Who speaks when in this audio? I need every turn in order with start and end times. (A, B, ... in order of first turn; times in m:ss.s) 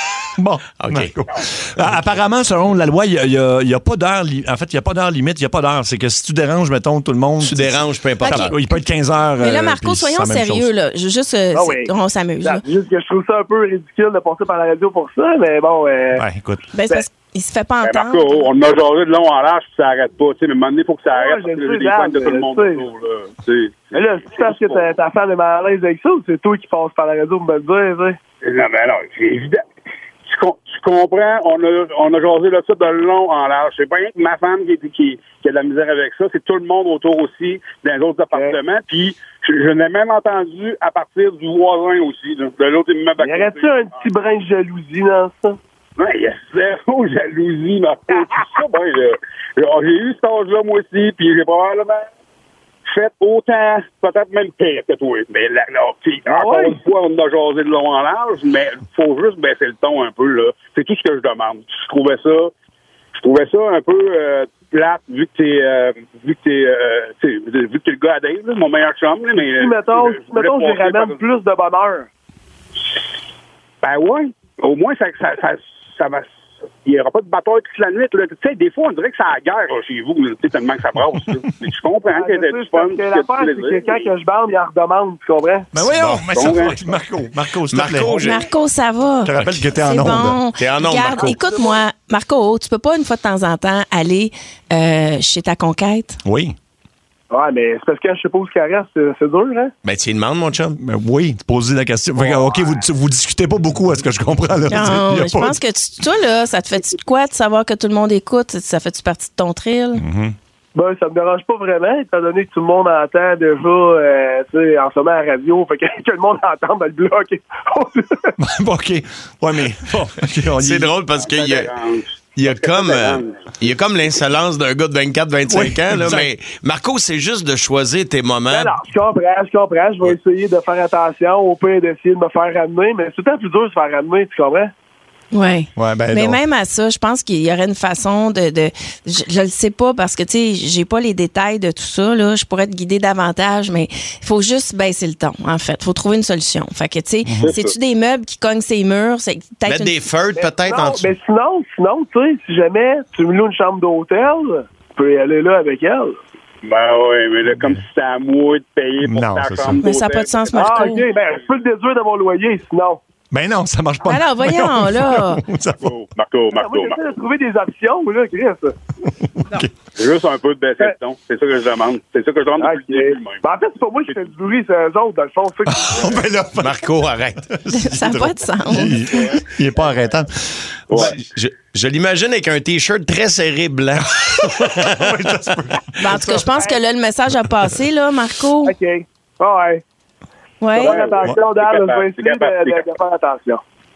0:00.4-0:10.7 A
0:00.8-0:01.1 B
0:07.4-0:08.5 B
0:08.2-0:08.5 C
0:09.4-0:12.6 C
0:11.5-0:16.2 D
0:16.1-0:16.6 A
0:16.7-0:18.5 C
0:17.8-0:24.8 E
0:21.1-0:22.8 D
0:23.9-0:28.2 D
0:28.4-0:29.6 E
0:30.3-0:44.0 E
0:38.3-0:38.6 D
0:43.2-0:45.6 D
0:46.0-0:52.1 E
0:52.8-1:02.5 E
0:56.3-0:56.8 D
1:03.1-1:11.2 E
1:09.4-1:12.1 D
1:13.8-1:16.3 E
1:16.8-1:24.1 E
1:22.1-1:25.7 D
1:25.7-1:28.4 A
1:25.9-1:26.5 B
1:26.3-1:26.8 E
1:27.7-1:28.4 B
1:28.1-1:36.2 C
1:29.2-1:30.4 A
1:29.3-1:29.7 B
1:30.5-1:31.4 B
1:31.2-1:31.7 D
1:36.2-1:36.6 A
1:37.3-1:39.7 D
1:39.8-1:40.8 B
1:40.8-1:45.6 A
1:42.2-1:42.7 E
1:44.7-1:50.0 C
1:49.9-1:50.4 A
1:50.7-1:58.3 D
1:58.4-2:00.9 A
2:00.6-2:01.7 B
2:01.2-2:03.3 E
2:02.4-2:08.8 B
2:05.5-2:06.3 A
2:08.5-2:14.7 D
2:15.3-2:30.0 C
2:15.8-2:16.4 A
2:27.2-2:27.5 A
2:27.4-2:27.7 E
2:29.6-2:31.1 B
2:30.3-2:36.2 D
2:36.6-2:41.0 E
2:39.0-2:39.8 A
2:39.8-2:41.0 C
2:40.6-2:43.0 D
2:43.3-2:45.9 A
2:44.0-2:45.4 C
2:45.8-2:47.0 E
2:46.5-2:48.7 D
2:49.1-2:49.7 A
2:50.0-2:53.4 E
2:52.6-2:56.2 D
2:55.7-2:56.9 A
2:56.6-2:57.5 B
2:57.4-3:01.1 A
2:57.7-2:59.1 C
3:00.9-3:05.1 B
3:04.2-3:06.2 A
3:06.0-3:08.7 C
3:06.2-3:06.8 D
3:08.6-3:09.8 D
3:10.6-3:11.0 C
3:10.7-3:13.6 D
3:10.8-3:12.8 E